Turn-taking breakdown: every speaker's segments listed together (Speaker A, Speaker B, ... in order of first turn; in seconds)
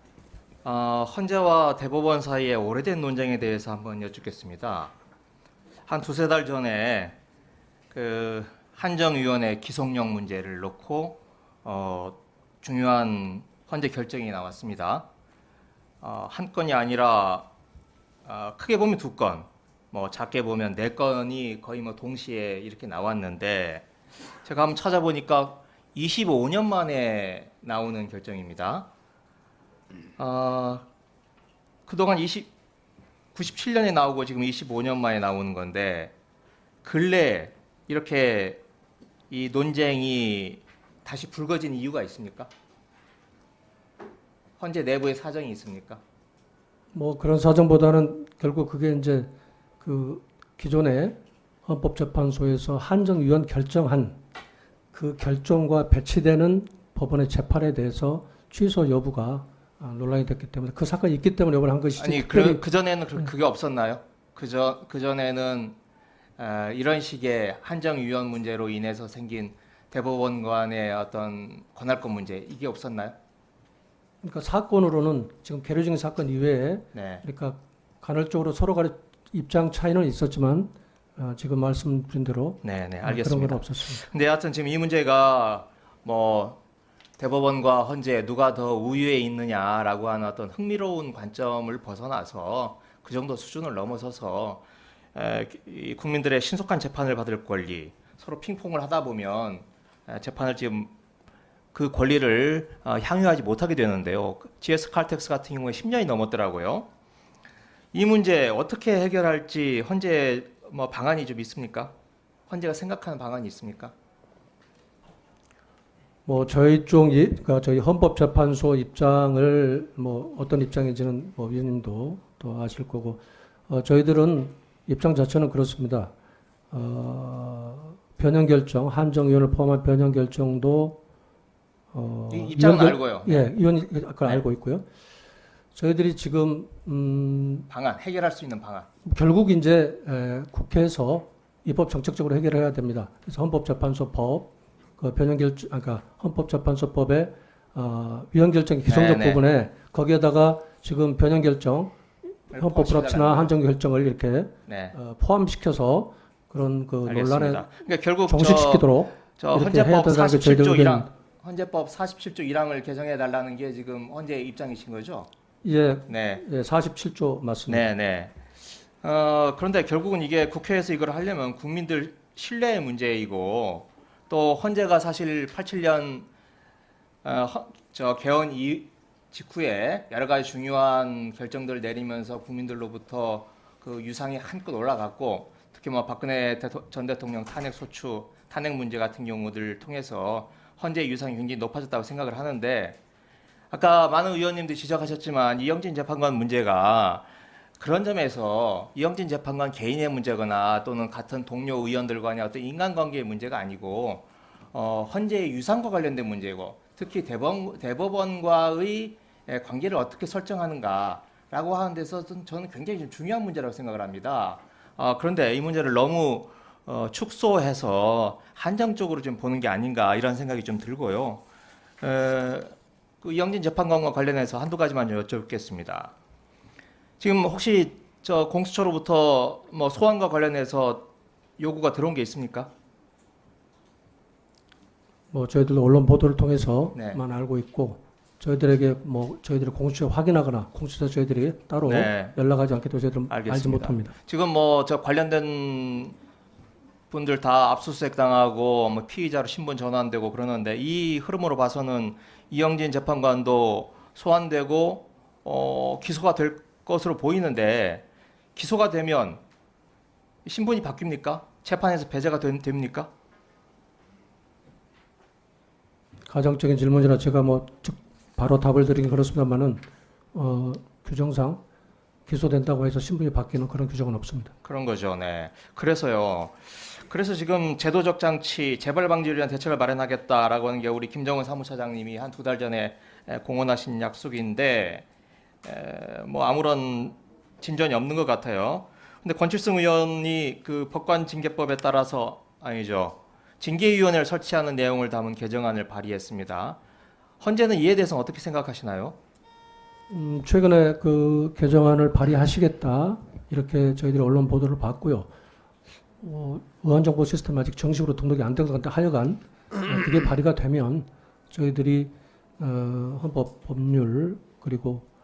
Speaker A: 0.6-4.9, 5.9-7.2, 7.9-15.1, 16.0-17.5, 18.2-23.9, 24.4-28.9, 30.2-30.9, 31.9-32.5, 33.4-36.1, 36.8-38.6, 39.3-42.5, 44.6-46.0, 62.0-65.8, 66.4-73.2, 76.9-77.2, 82.6-86.6, 87.2-94.6, 95.2-100.9, 101.7-106.9, 107.9-111.9, 112.5-113.9, 132.3-133.5, 137.7-138.9, 148.9-149.4, 152.5-153.5, 154.7-155.0, 157.1-158.9, 159.4-165.3, 166.1-166.4, 167.7-168.4, 169.0-176.3, 177.2-193.0, 193.7-197.3, 197.8-221.4, 222.0-226.1, 227.2-232.7, 241.8-242.3, 243.3-246.2, 247.1-259.4, 260.5-263.1, 274.6-285.1, 285.6-296.8, 297.4-299.2
Speaker B: 46.9-54.2, 54.9-62.6, 74.2-84.0, 116.3-126.1, 126.7-131.0, 131.9-134.8, 135.8-137.7, 139.0-152.0, 152.5-157.7, 158.3-161.1, 165.6-167.9, 235.3-244.1, 266.3-269.8, 270.3-271.6, 272.3-274.5, 300.1-305.3, 306.2-315.1